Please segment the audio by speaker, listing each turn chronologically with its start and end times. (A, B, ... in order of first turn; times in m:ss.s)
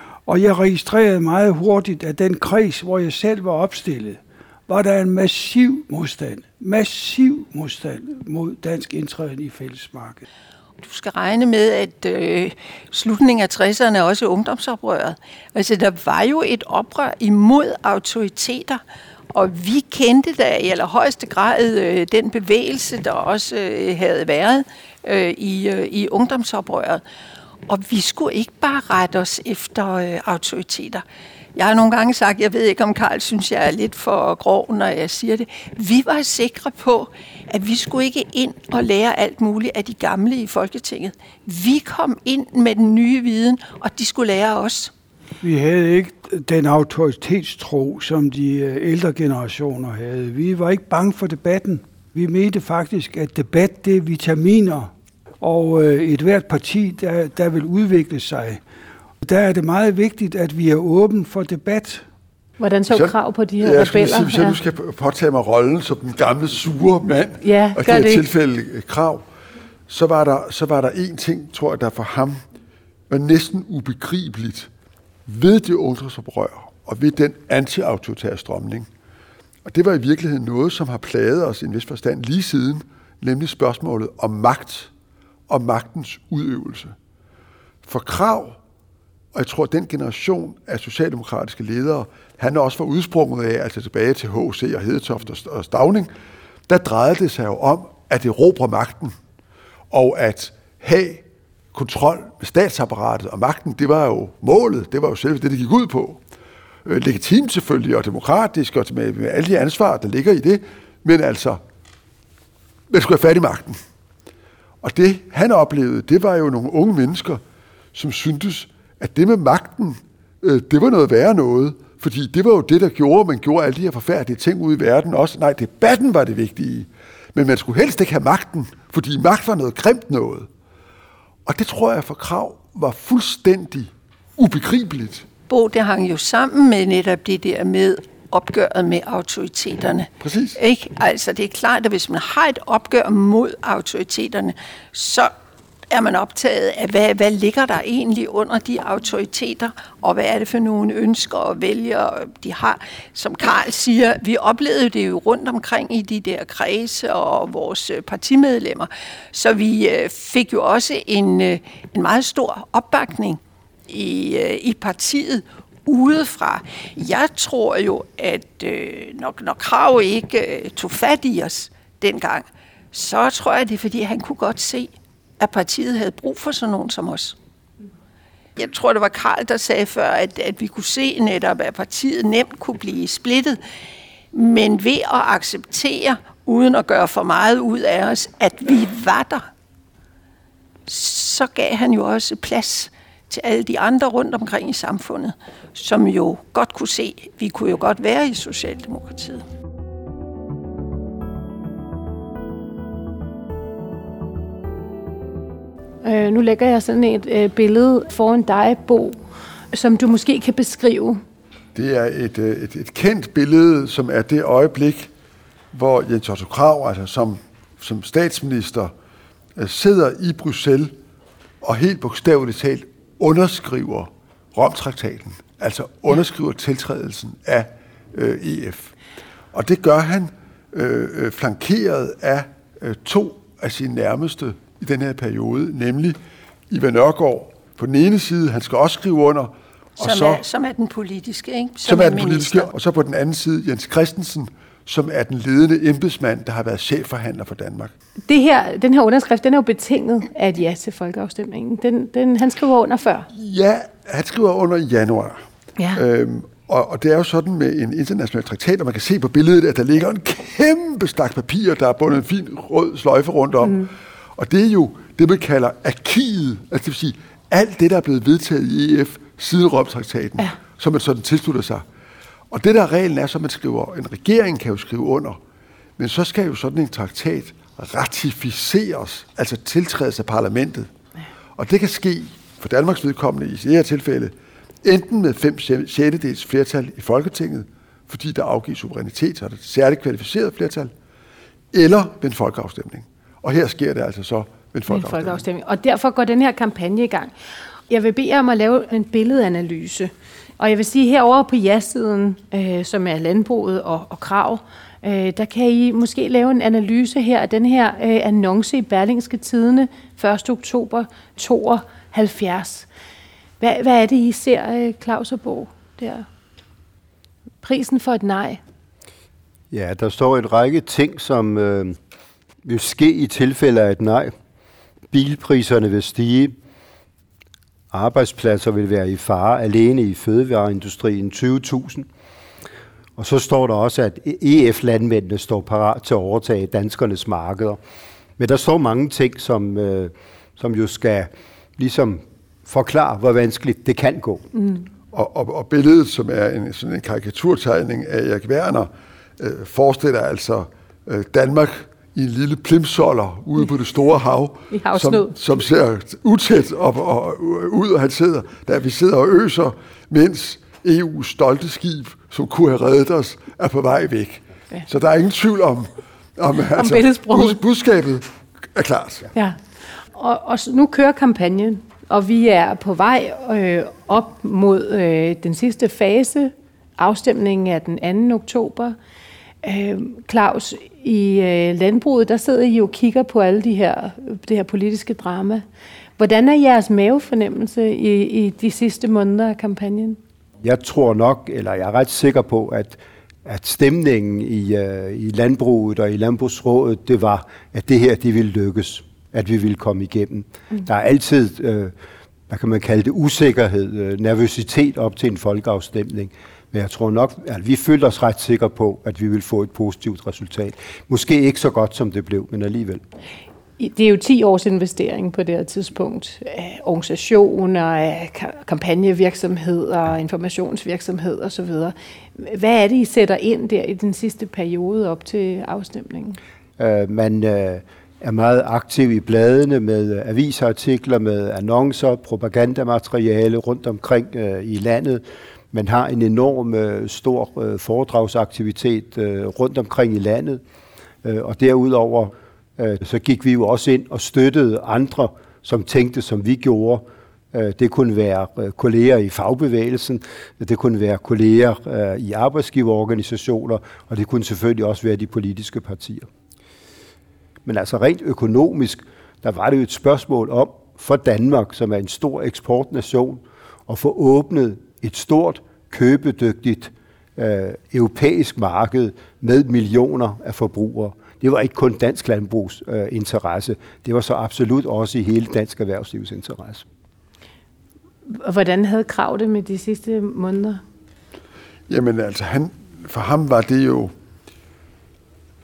0:00.2-0:10.2 A
0:10.8-0:27.0 B
0:27.7-0:31.0 B
0:31.5-0:44.9 B
0:45.4-0:58.6 A
0:59.2-1:02.0 A
1:02.6-1:04.6 C
1:02.9-1:09.2 D
1:07.4-1:08.2 C
1:09.9-1:12.4 D
1:13.1-1:14.7 D
1:15.2-1:18.9 D
1:19.6-1:24.9 D
1:25.5-1:26.9 D
1:27.8-1:28.6 D
1:29.3-1:36.1 D
1:36.7-1:39.1 D
1:39.9-1:46.2 D
1:46.8-1:51.6 D
1:52.9-1:53.8 D
1:54.8-1:57.4 D
1:57.9-2:10.5 D
2:11.4-2:15.2 D
2:15.5-2:25.3 B
2:20.2-2:20.6 D
2:25.9-2:57.4 B
2:58.6-3:03.6 B
3:04.3-3:09.5 B
3:10.8-3:19.4 B
3:26.0-3:29.2 C
3:29.7-3:31.2 C
3:31.7-3:35.1 D
3:35.7-3:38.9 D
3:39.6-3:40.9 D
3:41.6-3:48.9 D
3:49.5-3:56.2 D
3:56.7-4:00.4 D
4:00.0-4:02.7 B
4:01.8-4:07.9 D
4:08.2-4:13.3 C
4:13.3-4:15.4 D
4:15.8-4:16.0 C
4:16.0-4:31.8 D
4:23.6-4:23.9 C
4:32.5-4:35.4 D
4:36.0-4:40.9 D
4:41.6-4:50.9 D
4:51.7-4:55.4 D
4:54.9-4:57.3 C
4:57.9-5:12.9 C
5:13.6-5:16.2 C
5:17.6-5:18.6 C
5:19.7-5:22.0 E
5:22.6-5:24.3 E
5:25.1-5:26.5 E
5:27.9-5:32.1 E
5:33.2-5:37.8 E
5:38.4-5:44.5 E
5:44.5-5:44.8 C
5:45.1-6:09.3 D
5:54.7-5:55.3 C
6:06.8-6:07.6 C
6:09.3-6:09.6 C
6:10.1-6:19.0 C
6:19.6-6:25.6 C
6:26.2-6:30.2 C
6:30.6-6:41.9 E
6:42.5-6:53.0 E
6:53.8-7:06.4 C
7:06.8-7:20.6 E
7:21.2-7:36.3 E
7:37.6-7:56.8 E
7:58.3-8:00.8 C
8:01.9-8:04.1 D